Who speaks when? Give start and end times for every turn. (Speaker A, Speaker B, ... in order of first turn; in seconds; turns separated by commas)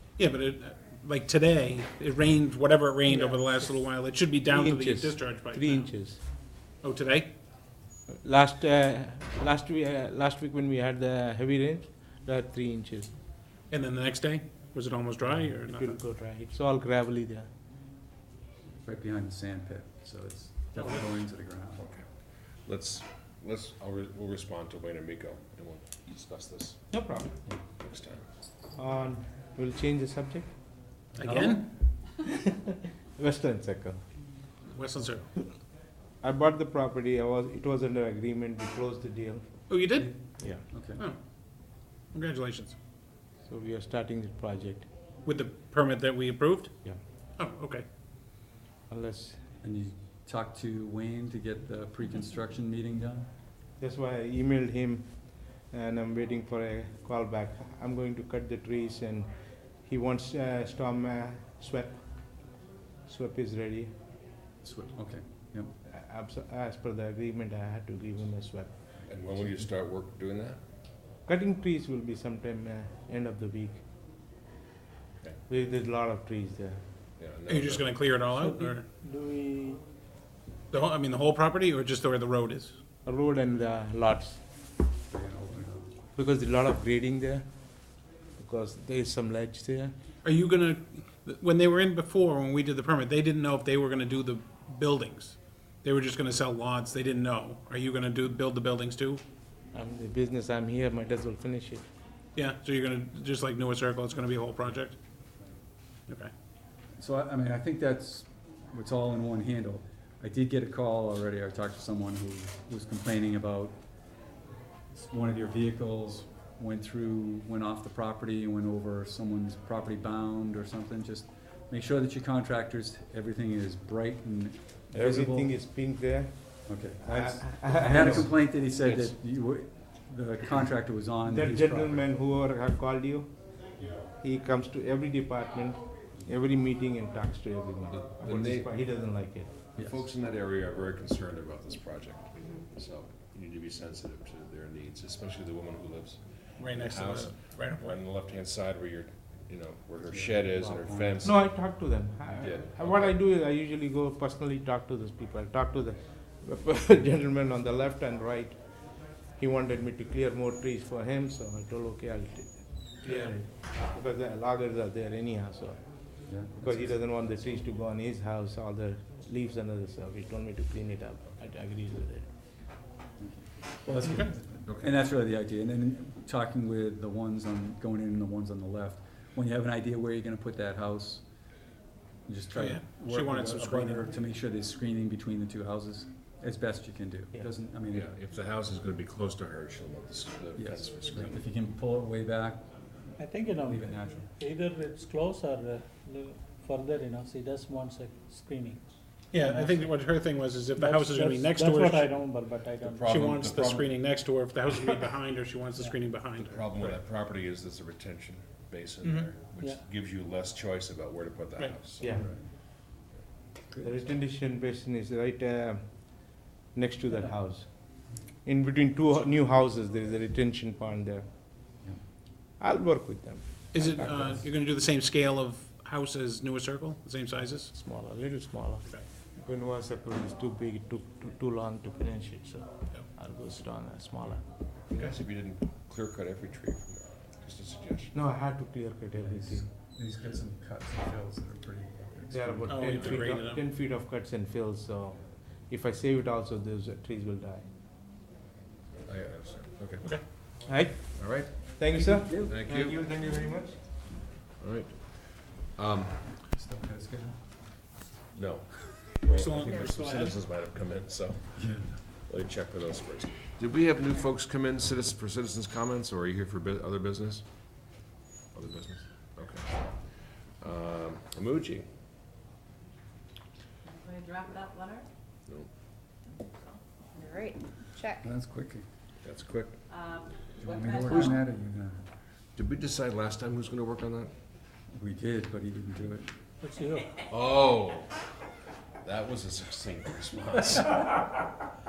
Speaker A: 0.2-6.1, Speaker B: 3.1-3.9, Speaker B: 4.5-6.2, Speaker A: 6.8-7.3, Speaker B: 8.1-13.1, Speaker A: 13.7-16.0, Speaker B: 15.6-17.5, Speaker C: 18.8-21.9, Speaker D: 21.8-26.9, Speaker B: 26.9-27.4, Speaker D: 27.8-28.2, Speaker B: 28.7-30.5, Speaker C: 31.1-31.7, Speaker A: 31.2-31.6, Speaker B: 32.2-34.0, Speaker A: 34.7-35.3, Speaker B: 36.2-39.7, Speaker A: 39.7-42.8, Speaker C: 40.0-41.0, Speaker B: 40.4-40.6, Speaker B: 43.5-44.9, Speaker A: 45.2-47.9, Speaker B: 48.9-49.4, Speaker C: 49.6-53.3, Speaker B: 53.8-63.9, Speaker C: 64.6-65.7, Speaker B: 65.9-69.0, Speaker D: 69.1-70.6, Speaker B: 71.2-73.8, Speaker B: 75.5-76.8, Speaker D: 77.2-78.2, Speaker A: 77.5-78.8, Speaker E: 78.2-79.8, Speaker A: 80.7-82.8, Speaker B: 83.0-84.4, Speaker C: 85.1-85.9, Speaker B: 86.1-87.6, Speaker B: 88.3-89.9, Speaker A: 90.2-99.2, Speaker B: 99.7-101.9, Speaker A: 102.4-105.0, Speaker C: 107.0-113.8, Speaker C: 114.9-125.6, Speaker B: 124.9-128.3, Speaker C: 126.7-132.0, Speaker D: 128.8-129.2, Speaker B: 131.3-133.5, Speaker B: 134.2-139.5, Speaker D: 137.9-138.7, Speaker C: 139.8-140.1, Speaker D: 139.8-151.7, Speaker A: 146.6-148.0, Speaker C: 150.1-151.2, Speaker B: 151.2-172.3, Speaker D: 152.3-153.2, Speaker A: 163.1-163.3, Speaker C: 166.3-167.6, Speaker C: 173.2-181.5, Speaker A: 173.9-174.3, Speaker D: 174.7-175.0, Speaker C: 182.3-188.1, Speaker A: 182.5-184.1, Speaker D: 187.9-191.4, Speaker C: 190.6-194.3, Speaker E: 193.2-200.0, Speaker A: 199.3-202.2, Speaker E: 200.8-203.2, Speaker D: 202.8-204.1, Speaker A: 203.1-207.0, Speaker E: 205.8-206.0, Speaker D: 206.4-212.3, Speaker A: 209.0-209.3, Speaker E: 209.6-209.8, Speaker B: 212.0-212.3, Speaker C: 212.1-212.4, Speaker B: 213.8-221.4, Speaker B: 222.6-224.4, Speaker A: 223.7-227.7, Speaker B: 227.7-234.5, Speaker D: 234.9-238.2, Speaker B: 238.1-239.7, Speaker C: 239.2-243.1, Speaker B: 242.3-247.7, Speaker A: 242.7-243.6, Speaker D: 249.1-250.4, Speaker B: 250.7-253.8, Speaker D: 251.1-253.0, Speaker C: 252.3-252.5, Speaker D: 254.6-256.3, Speaker C: 256.3-257.6, Speaker D: 258.3-267.4, Speaker A: 259.2-260.4, Speaker C: 261.6-261.9, Speaker D: 268.5-271.9, Speaker F: 273.9-275.1, Speaker F: 276.3-278.2, Speaker C: 278.2-278.9, Speaker D: 279.2-279.8, Speaker F: 280.0-280.2, Speaker C: 280.6-282.0, Speaker D: 282.6-284.3, Speaker C: 284.9-286.3, Speaker E: 286.6-287.2, Speaker D: 287.3-288.3, Speaker D: 289.0-291.2